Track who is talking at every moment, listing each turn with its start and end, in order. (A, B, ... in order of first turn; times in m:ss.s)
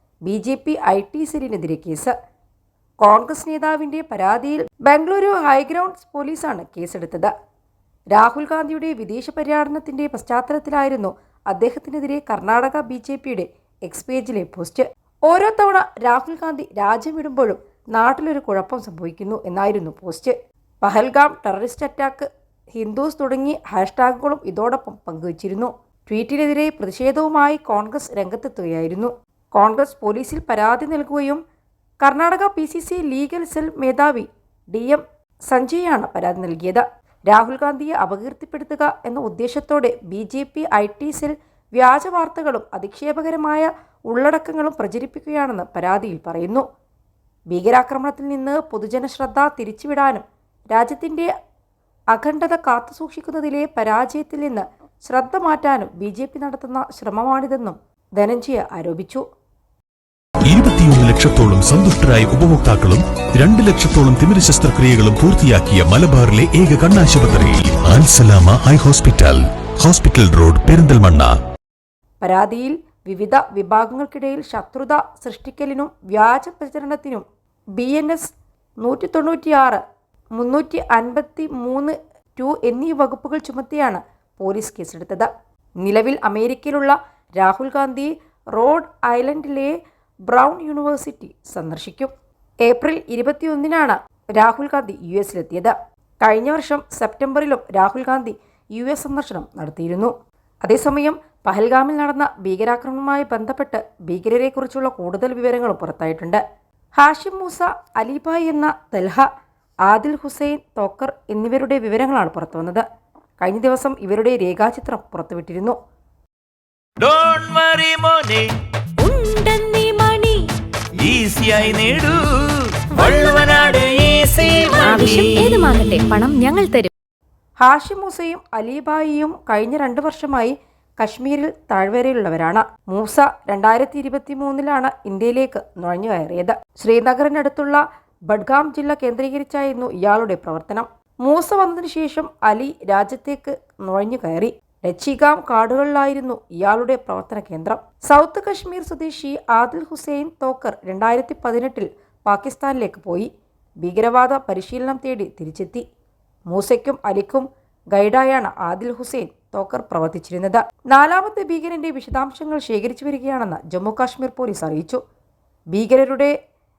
0:00.2-0:02.1 A
0:03.0-0:07.3 A
0:08.1-0:31.4 A
0:32.0-0:46.6 A
0:47.5-0:51.3 A
0:52.1-0:59.2 A
1:00.5-1:11.4 B
1:12.2-1:19.8 A
1:20.3-1:25.3 A
1:25.8-1:32.1 A
1:32.6-1:40.1 A
1:40.6-1:46.4 A
1:47.0-1:49.3 A
1:49.8-1:52.8 A
1:53.4-1:55.8 A
1:57.0-1:58.5 C
1:59.0-2:00.4 D
2:01.0-2:05.6 C
2:04.8-2:06.9 D
2:07.6-2:33.3 A
2:33.8-2:35.8 A
2:36.5-2:45.0 A
2:45.7-2:46.3 A